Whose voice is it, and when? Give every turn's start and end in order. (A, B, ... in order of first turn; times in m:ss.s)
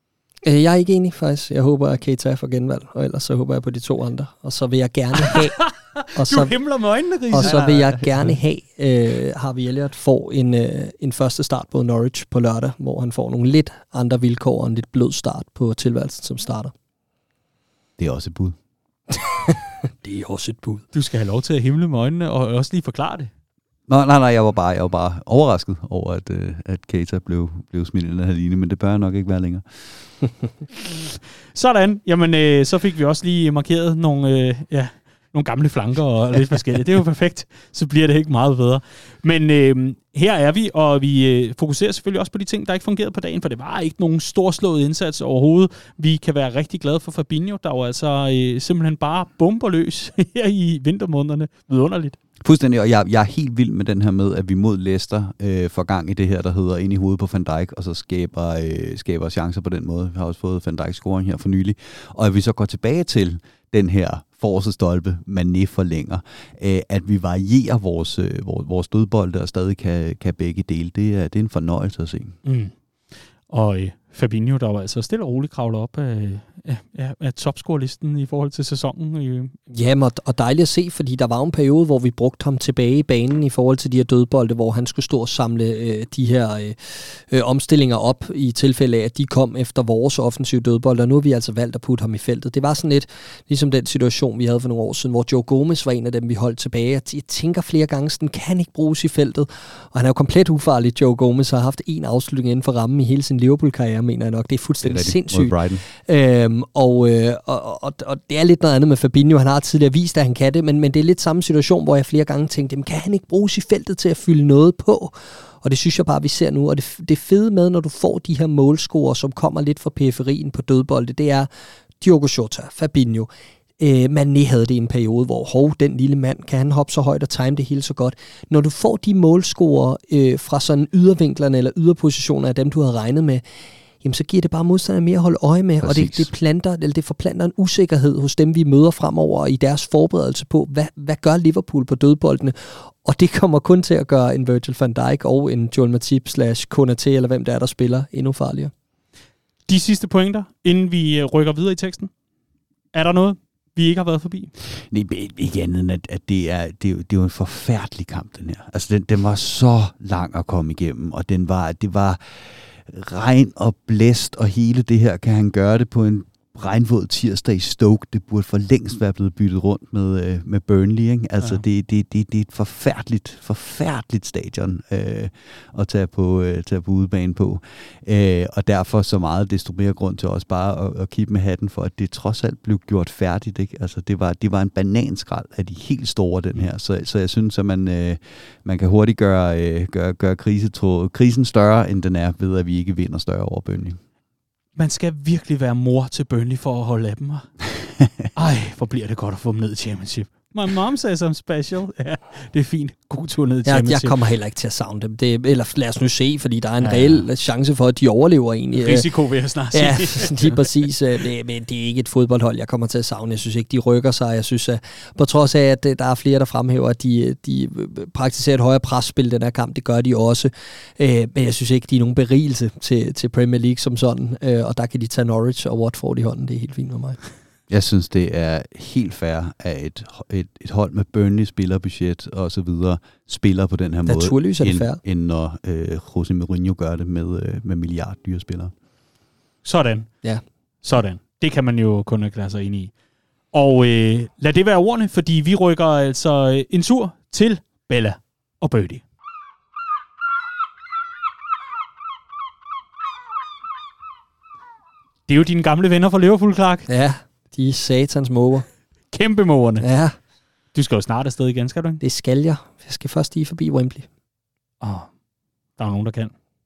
0:00.4-0:05.6 A
0:05.2-0:08.0 B
0:06.2-0:06.5 A
0:07.3-0:16.7 A
0:18.0-0:18.6 C
0:19.2-0:20.8 A
0:20.9-0:23.3 B
0:23.9-0:29.6 C
0:30.8-0:52.2 B
0:52.4-1:12.4 C
1:12.4-1:12.7 B
1:13.5-1:19.6 B
1:19.7-2:01.5 A
1:44.8-1:45.8 C
2:02.0-2:03.3 A
2:03.8-2:13.4 A
2:14.0-2:28.7 A
2:15.8-2:16.3 C
2:29.7-2:32.1 B
2:32.9-2:34.5 B
2:34.9-3:14.0 C
3:14.8-3:17.5 B
3:18.4-3:24.2 B
3:23.7-3:29.0 A
3:26.8-3:27.3 B
3:28.7-3:30.7 B
3:29.7-3:47.2 A
3:47.7-3:58.7 C
3:54.1-3:55.0 A
3:59.6-4:00.1 B
4:00.8-4:02.9 B
4:03.5-4:09.0 B
4:15.3-4:16.9 B
4:16.9-4:18.7 A
4:19.1-4:19.9 B
4:19.8-4:20.2 A
4:20.7-4:22.0 B
4:22.0-4:24.1 A
4:24.8-4:25.1 B
4:25.8-4:26.3 B